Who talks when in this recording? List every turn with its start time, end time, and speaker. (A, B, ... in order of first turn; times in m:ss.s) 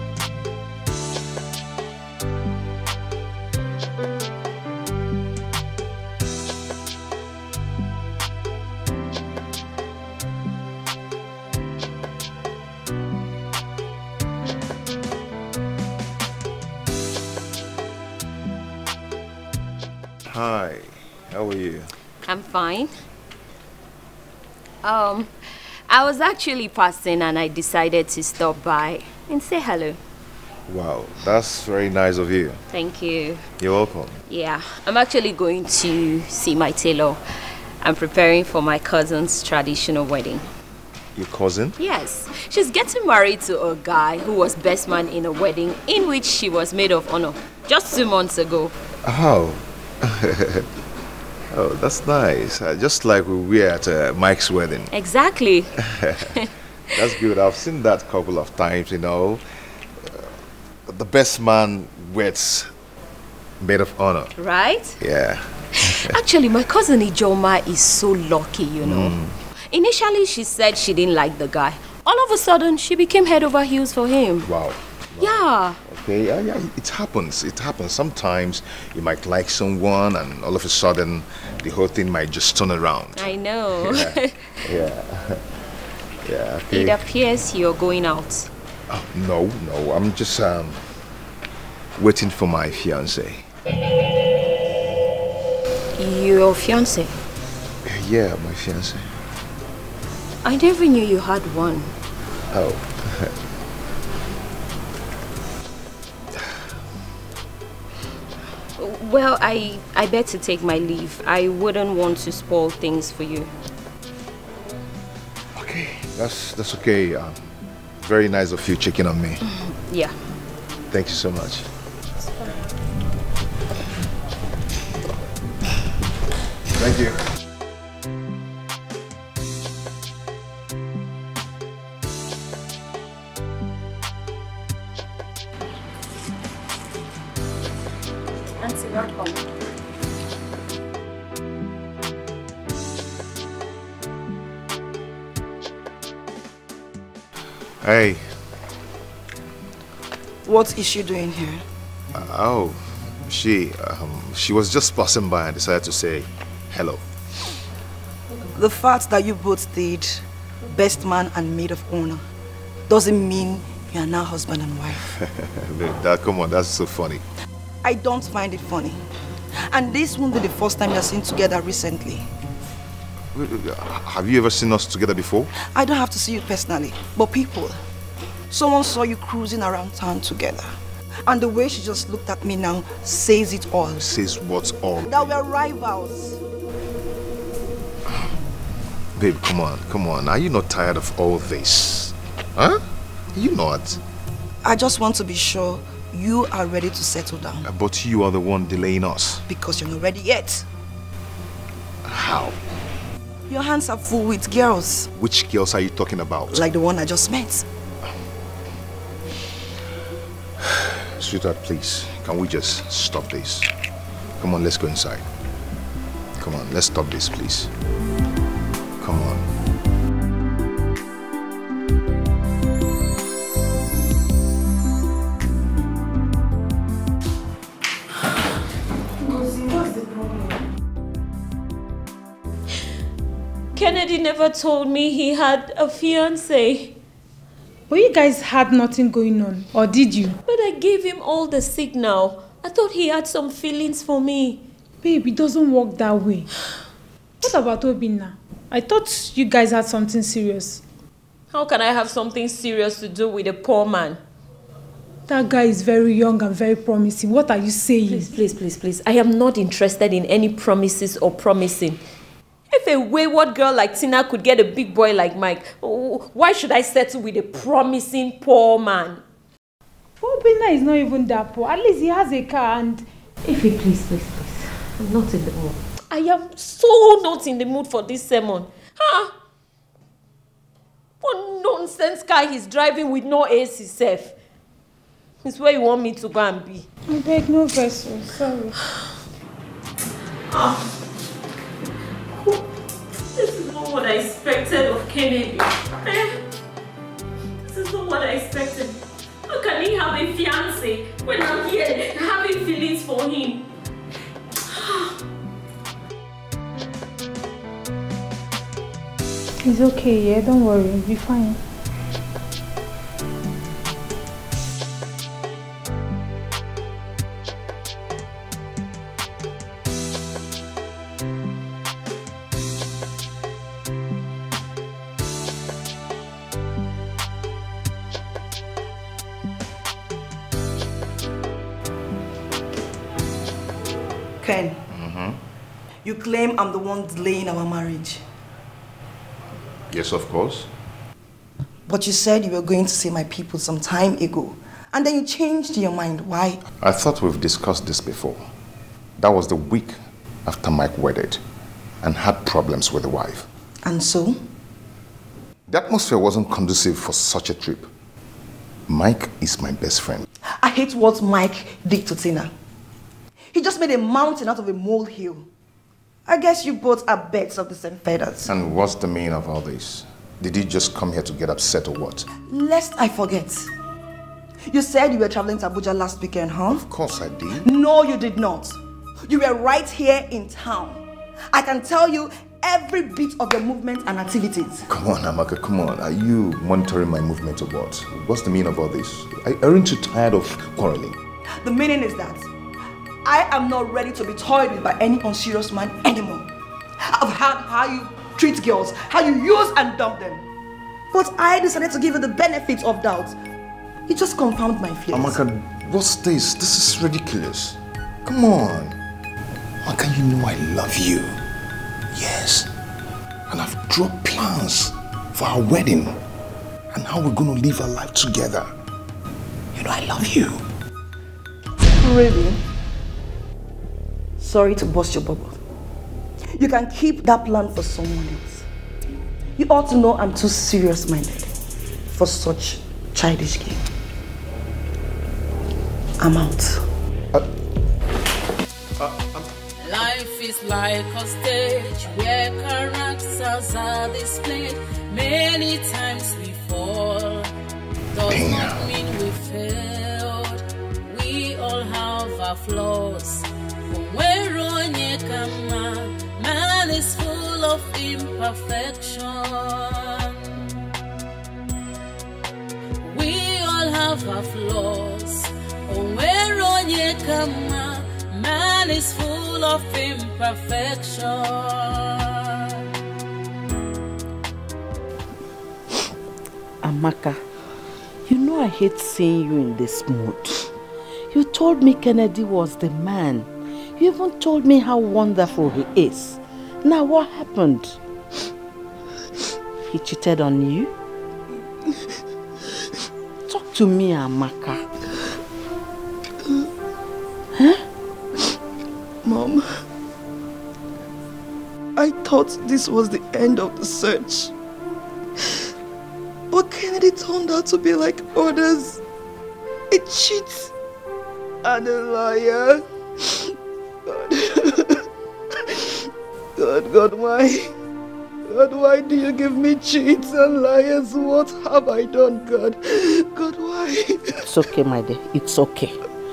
0:20.2-0:21.9 A
0:22.2-0:22.9 B
0:24.8-0:25.3 B
0:25.9-0:30.0 B
0:30.7-0:32.6 A
0:32.7-0:33.4 B
0:33.6-0:34.2 A
0:34.3-0:37.2 B
0:37.8-0:40.5 B
0:41.1-0:41.8 A
0:41.8-0:48.7 B
0:49.0-0:50.7 A
0:51.5-0:54.9 A
0:54.9-0:57.0 B
0:55.8-0:56.3 A
0:56.9-0:59.4 A
1:00.0-1:00.3 A
1:00.9-1:02.7 A
1:03.6-1:04.3 A
1:04.4-1:05.0 B
1:05.0-1:06.2 A
1:05.7-1:09.2 B
1:08.8-1:09.4 A
1:09.7-1:14.5 B
1:14.4-1:25.4 A
1:15.2-1:15.8 B
1:23.2-1:24.7 B
1:26.2-1:27.0 A
1:26.7-1:28.5 B
1:28.9-1:30.8 A
1:32.0-1:33.5 A
1:36.0-1:37.2 B
1:37.8-1:39.1 A
1:40.4-1:41.9 B
1:42.5-1:43.3 A
1:48.8-1:53.5 B
1:55.5-1:57.5 A
1:58.0-1:59.4 A
1:59.4-2:00.1 B
2:00.9-2:01.7 A
2:06.7-2:07.2 A
2:18.6-2:19.4 B
2:27.8-2:28.4 A
2:30.4-2:31.6 C
2:32.1-2:37.0 A
2:38.5-2:42.2 C
2:42.9-2:45.0 C
2:45.2-2:47.2 A
2:47.8-2:49.0 C
2:49.7-2:52.3 C
2:53.3-2:55.5 A
2:55.6-2:57.8 C
2:58.5-3:00.7 C
3:01.2-3:04.0 C
3:04.0-3:05.3 A
3:05.0-3:06.4 C
3:09.2-3:14.0 A
3:14.6-3:17.6 C
3:17.6-3:19.4 A
3:19.5-3:20.6 C
3:22.0-3:22.6 A
3:23.5-3:25.1 C
3:25.1-3:26.6 A
3:26.5-3:27.6 C
3:31.2-3:33.7 A
3:34.4-3:35.3 A
3:36.4-3:37.7 A
3:39.0-3:39.4 A
3:49.3-3:50.5 D
3:53.7-3:57.0 B
3:57.9-4:00.4 D
4:00.4-4:04.6 B
4:05.0-4:06.5 D
4:07.4-4:10.8 D
4:11.5-4:14.2 B
4:15.3-4:18.3 D
4:18.1-4:22.0 B
4:22.7-4:29.2 B
4:30.2-4:33.0 D
4:33.4-4:34.6 E
4:35.0-4:39.3 B
4:41.2-4:44.4 B
4:45.4-4:46.9 B
4:47.1-4:48.7 D
4:50.5-4:50.9 B
4:53.3-4:56.4 B
4:57.6-5:03.6 B
5:04.7-5:05.2 B
5:09.6-5:11.6 D
5:34.4-5:34.8 C
5:34.9-5:35.4 A
5:36.0-5:38.2 C
5:39.9-5:40.7 A
5:41.8-5:46.6 C
5:46.8-5:48.5 A
5:49.2-5:51.4 A
5:52.0-5:53.5 A
5:53.8-5:54.4 C
5:55.7-5:57.9 A
5:58.9-6:00.2 A
6:00.6-6:02.5 C
6:03.5-6:05.5 C
6:06.2-6:08.5 C
6:08.5-6:12.3 A
6:12.4-6:13.7 C
6:14.7-6:16.8 C
6:16.7-6:17.7 A
6:17.6-6:24.9 C
6:24.9-6:31.2 A
6:31.6-6:32.5 C
6:33.2-6:36.5 C
6:37.0-6:40.4 C
6:41.1-6:43.4 C
6:44.1-6:45.4 C
6:45.1-6:49.0 A
6:49.8-6:51.4 A
6:52.1-6:52.7 A
6:53.5-6:56.2 A
6:56.9-6:58.7 A
6:59.7-7:00.6 A
7:01.8-7:02.6 C
7:04.4-7:05.6 C
7:06.6-7:08.6 C
7:09.6-7:11.5 C
7:12.1-7:13.8 C
7:16.2-7:16.8 C
7:19.0-7:19.5 A
7:19.8-7:27.5 F
7:28.1-7:40.7 F
7:28.2-7:28.9 A
7:43.0-7:52.8 F
7:56.8-7:57.4 E
7:58.3-8:00.5 E
8:01.3-8:03.5 E
8:04.0-8:07.9 E
8:09.9-8:10.9 E
8:13.5-8:14.8 E
8:19.2-8:19.7 C
8:22.0-8:24.5 C
8:26.5-8:29.0 C
8:29.9-8:30.7 C
8:31.6-8:33.5 C
8:34.1-8:35.0 C
8:35.7-8:35.9 C
8:36.6-8:37.7 C
8:38.5-8:44.4 C
8:44.4-8:45.9 E